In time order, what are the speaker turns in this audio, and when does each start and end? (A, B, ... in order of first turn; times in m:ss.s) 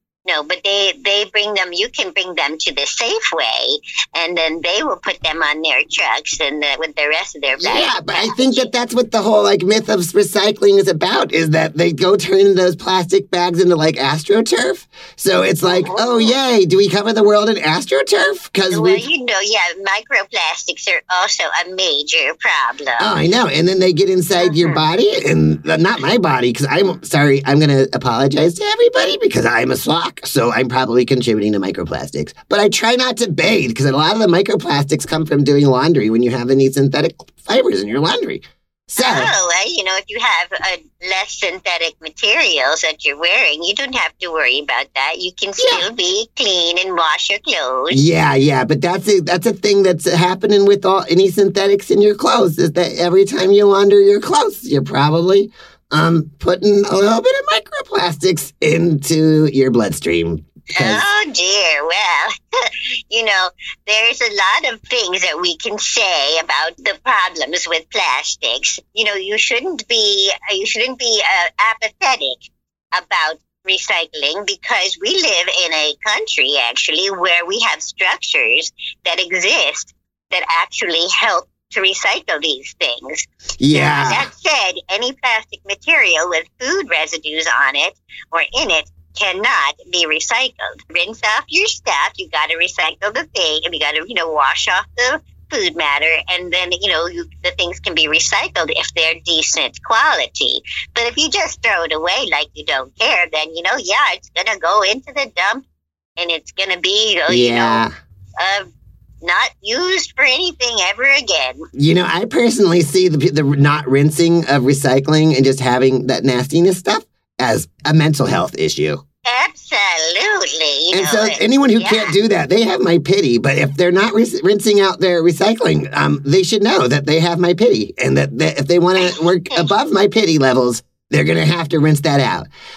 0:00.2-0:08.7 A
0:07.6-0:19.0 B
0:15.7-0:16.4 A
0:18.7-0:23.2 A
0:23.0-0:39.3 B
0:24.4-0:24.8 A
0:39.0-0:48.1 A
0:45.6-0:45.9 B
0:47.9-1:01.1 B
1:00.8-1:45.6 A
1:23.6-1:24.3 B
1:46.2-1:47.8 A
1:47.3-1:47.9 B
1:48.4-1:48.7 A
1:49.2-1:51.6 A
1:51.8-1:59.0 B
1:59.3-2:02.2 A
2:00.9-2:12.5 B
2:09.0-2:09.7 A